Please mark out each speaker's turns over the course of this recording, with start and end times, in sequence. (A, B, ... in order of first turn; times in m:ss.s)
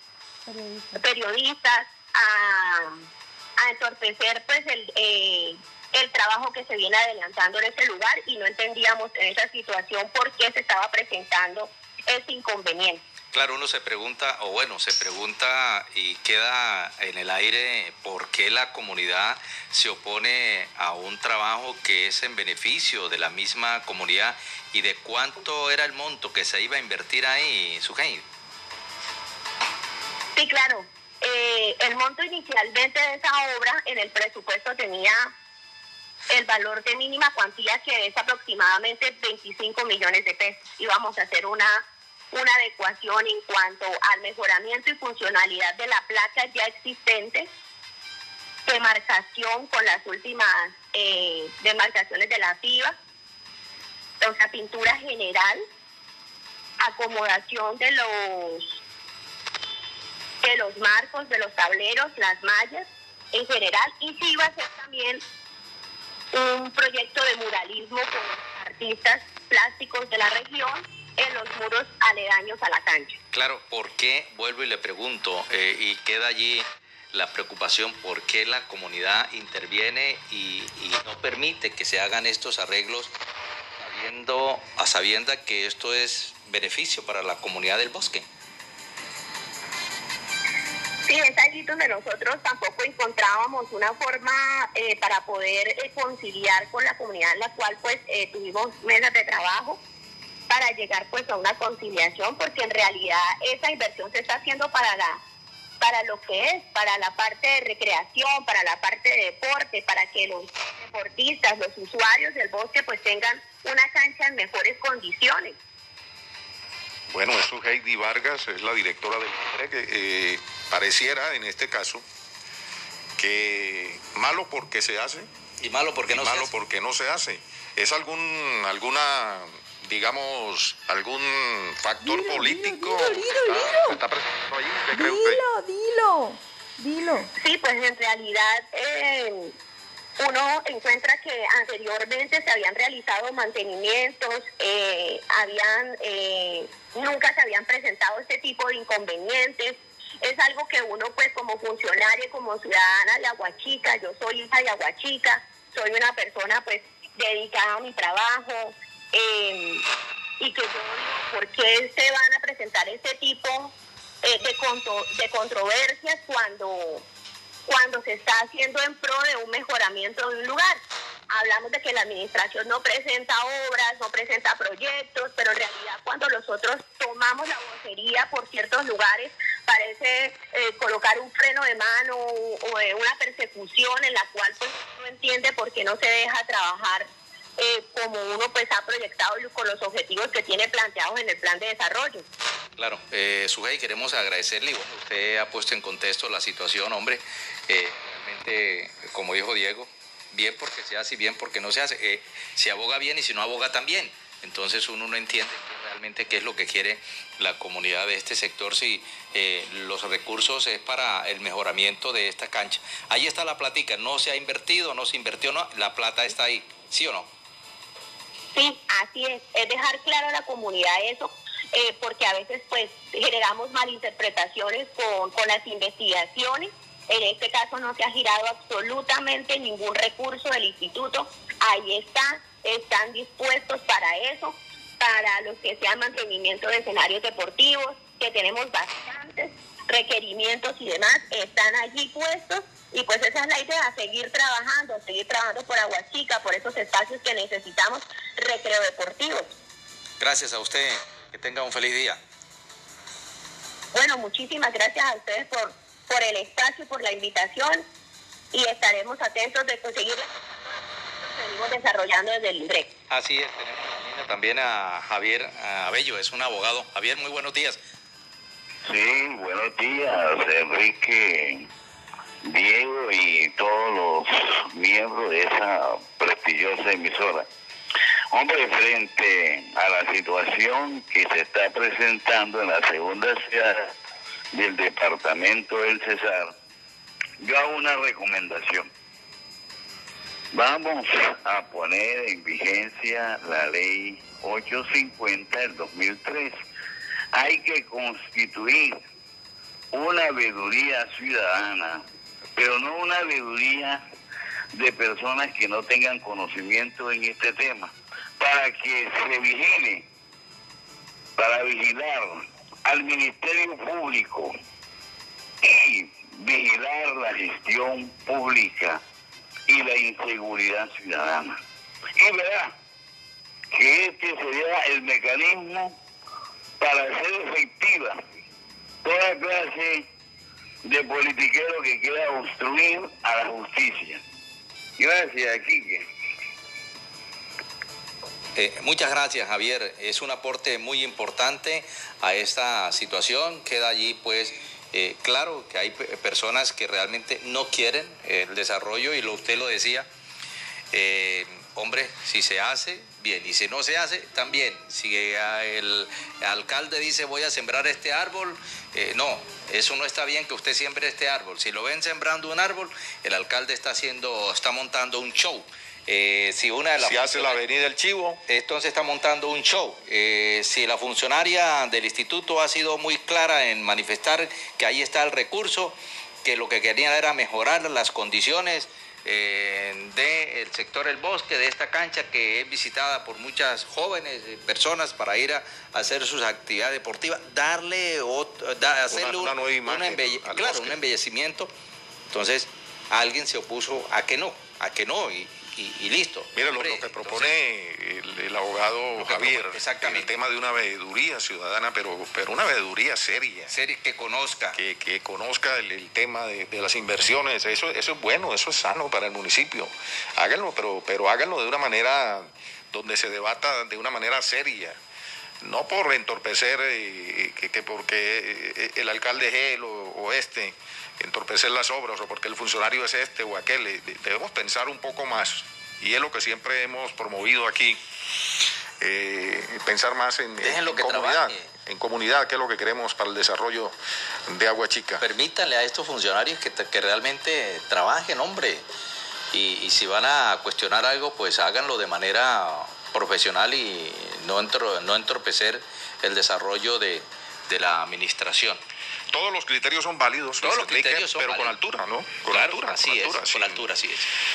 0:00.5-0:01.0 A
0:01.0-0:03.0 B
0:03.6-0:13.0 B
0:13.3-0:28.2 C
0:30.4-0:35.3 B
0:36.3-0:47.5 B
0:48.7-0:53.0 B
0:54.2-0:55.6 B
0:56.8-0:58.8 B
1:00.4-1:05.2 B
1:06.3-1:13.2 B
1:13.3-1:23.1 C
1:23.8-1:28.3 C
1:31.1-1:39.8 B
1:40.5-1:45.2 B
1:45.8-1:55.6 B
1:57.1-2:02.0 D
2:03.2-2:05.3 D
2:05.6-2:06.5 C
2:06.1-2:15.4 D
2:12.0-2:14.0 A
2:14.9-2:17.3 A
2:17.4-2:19.6 B
2:20.2-2:39.8 B
2:40.4-2:47.0 B
2:47.7-2:50.8 B
2:51.3-3:12.3 B
3:12.8-3:37.3 C
3:38.5-4:09.5 B
4:10.2-4:12.2 C
4:13.9-4:17.9 B
4:18.5-4:22.9 B
4:23.1-4:27.8 C
4:28.8-4:31.7 E
4:32.4-4:37.5 E
4:38.3-4:43.9 E
4:44.5-4:46.5 E
4:47.4-4:48.9 E
4:50.5-4:56.6 E
4:57.3-4:59.0 E
4:59.9-5:02.0 E
5:02.6-5:04.0 E
5:04.7-5:10.1 E
5:11.4-5:14.5 E
5:15.6-5:19.0 E
5:19.7-5:21.6 E
5:22.2-5:22.8 E
5:23.7-5:26.0 E
5:26.8-5:28.2 E
5:29.0-5:30.1 E
5:30.8-5:34.2 E
5:35.0-5:36.0 E
5:38.6-5:50.1 C
5:50.9-6:07.6 C
6:07.0-6:08.4 D
6:08.5-6:31.7 C
6:29.1-6:31.0 D
6:32.3-6:37.6 C
6:36.6-6:43.7 D
6:39.2-6:40.3 C
6:43.7-6:44.8 C
6:44.8-6:55.0 D
6:55.6-7:08.0 D
7:09.0-7:14.0 D
7:10.6-7:11.7 C
7:14.5-7:15.2 D
7:15.2-7:18.8 C
7:19.5-7:28.8 C
7:29.3-7:33.9 D
7:30.6-7:31.8 C
7:32.5-7:34.3 C